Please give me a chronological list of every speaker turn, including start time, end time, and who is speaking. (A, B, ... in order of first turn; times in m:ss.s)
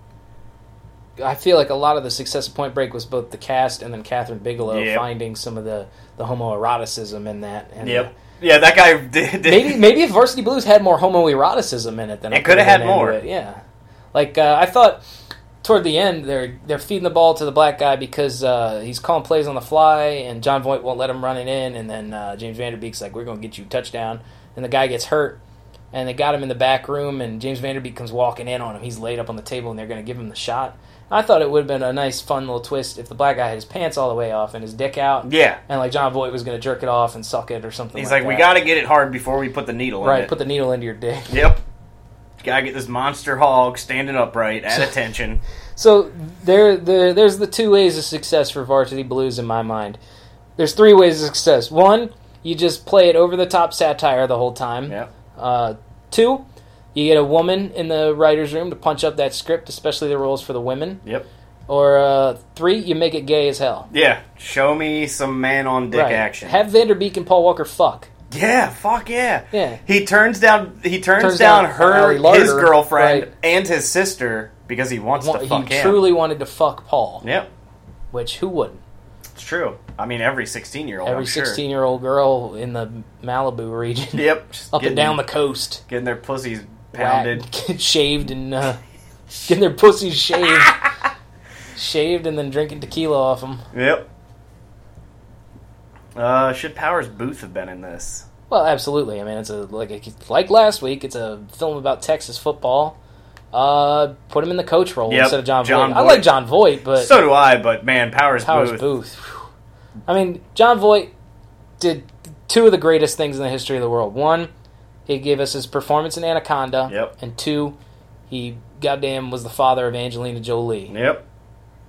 0:01.2-0:08.1 A
0:04.7-0:05.0 B
0:07.8-0:09.8 B
0:09.4-0:13.6 A
0:12.3-0:13.2 B
0:14.1-0:15.0 A
0:15.6-0:25.4 A
0:25.9-0:38.5 A
0:35.2-0:35.6 B
0:38.0-0:40.3 B
0:40.0-0:41.3 A
0:41.3-0:41.6 B
0:42.4-0:45.4 B
0:45.8-0:50.0 A
0:50.6-1:01.0 A
1:01.7-1:03.9 A
1:03.9-1:06.6 B
1:05.9-1:08.1 A
1:08.3-1:16.1 B
1:09.5-1:09.8 A
1:11.2-1:13.3 A
1:15.2-1:17.3 A
1:17.2-1:17.5 B
1:18.1-1:18.8 A
1:19.4-1:21.6 B
1:21.0-1:25.8 A
1:24.2-1:25.2 B
1:25.9-1:27.5 B
1:26.9-1:28.8 A
1:29.5-1:30.8 A
1:30.4-1:30.8 B
1:31.8-1:33.6 A
1:33.7-1:34.0 B
1:36.2-1:38.3 B
1:38.5-1:43.0 A
1:43.5-1:47.1 A
1:45.1-1:46.3 B
1:47.0-1:48.8 B
1:48.4-1:49.5 A
1:50.1-1:51.1 A
1:51.8-1:54.5 A
1:55.1-1:57.8 A
1:56.9-1:57.1 B
1:58.3-2:00.9 A
2:00.9-2:01.2 B